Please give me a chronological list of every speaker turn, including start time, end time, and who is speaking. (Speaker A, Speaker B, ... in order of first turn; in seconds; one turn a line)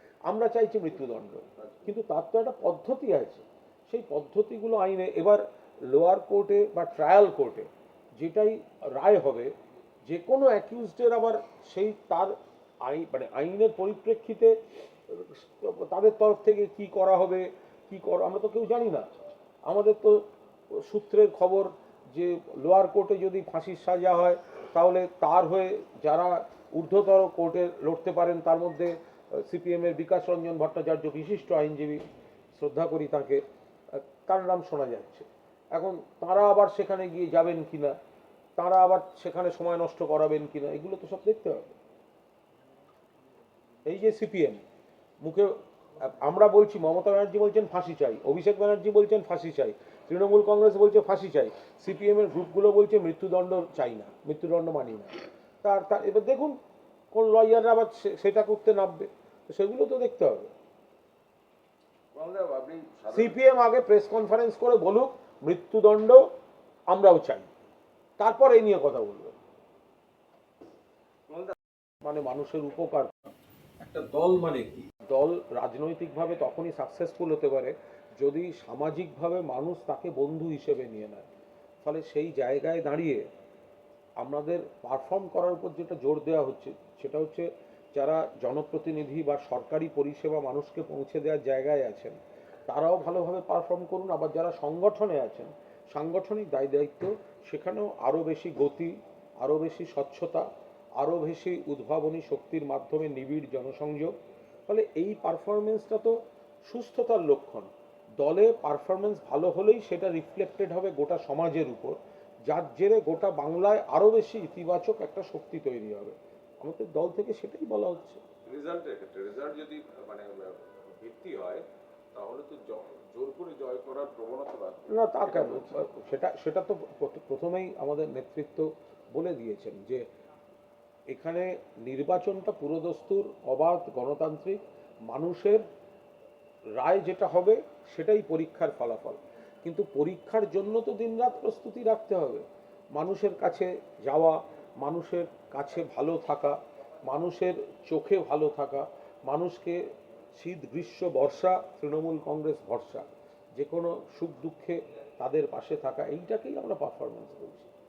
Speaker A: 0.3-9.5
Speaker B: 1.6-1.9
Speaker A: 10.1-14.6
Speaker A: 15.1-19.1
Speaker A: 19.7-32.0
Speaker A: 32.6-38.0
Speaker A: 38.6-41.7
Speaker A: 43.9-44.6
Speaker A: 45.2-56.6
Speaker A: 57.1-60.5
Speaker B: 62.1-63.4
Speaker A: 63.1-66.2
Speaker A: 66.9-67.5
Speaker A: 68.2-69.4
Speaker B: 71.3-71.5
Speaker A: 72.0-73.3
Speaker A: 73.8-81.3
Speaker A: 81.8-83.2
Speaker A: 84.2-104.2
Speaker A: 104.7-118.2
Speaker B: 118.4-125.7
Speaker A: 124.9-130.0
Speaker A: 131.1-135.6
Speaker A: 136.8-142.4
Speaker A: 142.9-149.8
Speaker A: 150.3-157.7